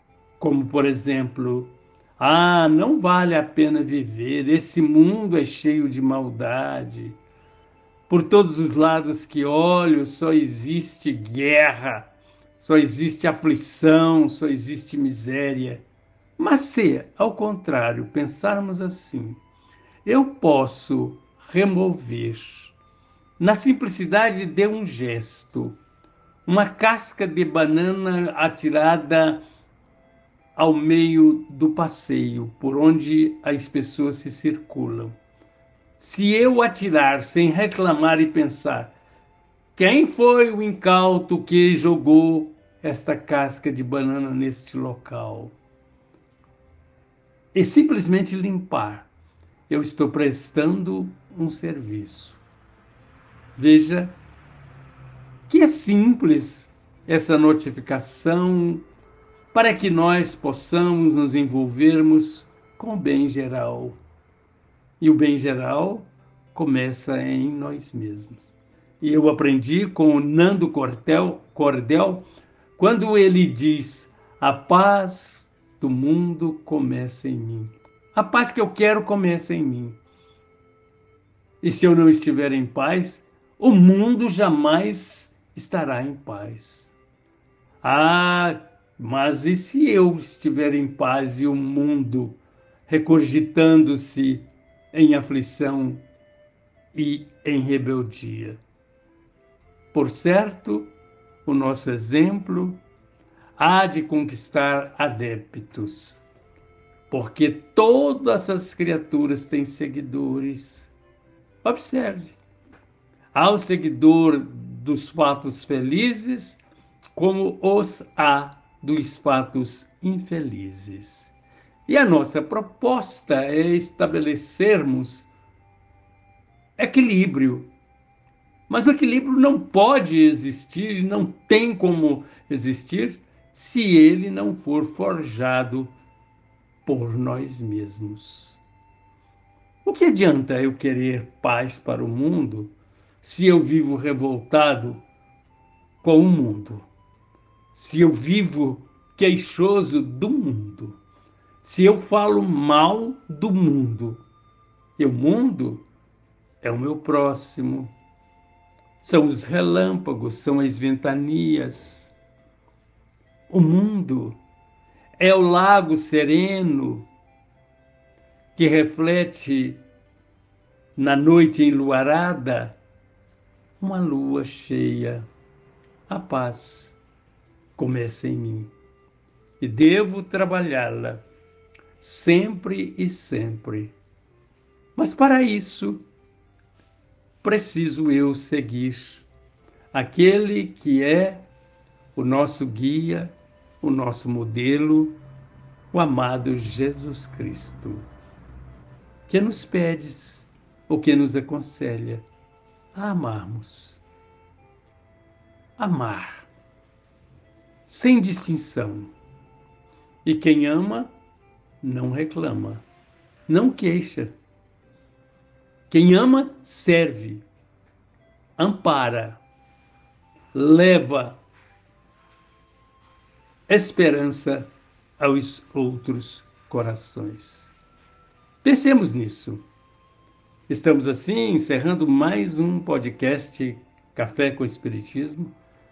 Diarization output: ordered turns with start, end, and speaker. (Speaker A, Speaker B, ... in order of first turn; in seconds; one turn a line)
Speaker A: 0.4-7.2
Speaker A: 8.1-15.9
Speaker A: 16.4-19.4
Speaker A: 20.0-22.8
Speaker A: 23.4-25.8
Speaker A: 26.5-29.4
Speaker A: 30.6-35.1
Speaker A: 36.0-39.0
Speaker A: 39.8-45.6
Speaker A: 47.5-49.1
Speaker A: 49.7-52.4
Speaker A: 53.5-54.2
Speaker A: 55.5-58.9
Speaker A: 59.5-64.0
Speaker A: 65.0-80.0
Speaker A: 81.6-87.0
Speaker A: 87.8-96.0
Speaker A: 96.9-98.6
Speaker A: 99.9-100.9
Speaker A: 101.5-102.8
Speaker A: 103.6-106.2
Speaker A: 107.1-110.9
Speaker A: 111.6-112.4
Speaker A: 113.3-116.6
Speaker A: 117.2-121.3
Speaker A: 121.9-125.3
Speaker A: 126.8-127.7
Speaker A: 128.7-135.9
Speaker A: 136.8-138.6
Speaker A: 139.8-145.0
Speaker A: 146.0-146.9
Speaker A: 147.7-151.0
Speaker A: 151.6-154.2
Speaker A: 155.0-155.9
Speaker A: 156.6-157.9
Speaker A: 159.0-162.1
Speaker A: 163.5-164.4
Speaker A: 165.2-167.1
Speaker A: 168.6-169.8
Speaker A: 171.0-172.8
Speaker A: 173.8-175.3
Speaker A: 176.1-177.0
Speaker A: 177.8-178.7
Speaker A: 179.6-181.2
Speaker A: 182.0-183.9
Speaker A: 185.0-186.1
Speaker A: 187.4-189.3
Speaker A: 189.9-191.5
Speaker A: 192.1-195.2
Speaker A: 195.9-198.1
Speaker A: 199.3-202.2
Speaker A: 202.9-204.0
Speaker A: 205.8-206.5
Speaker A: 207.9-209.1
Speaker A: 210.2-211.1
Speaker A: 211.8-212.8
Speaker A: 213.5-214.3
Speaker A: 215.9-217.4
Speaker A: 218.6-219.4
Speaker A: 220.5-221.4
Speaker A: 223.7-224.7
Speaker A: 225.2-227.8
Speaker A: 228.6-229.7
Speaker A: 230.7-235.6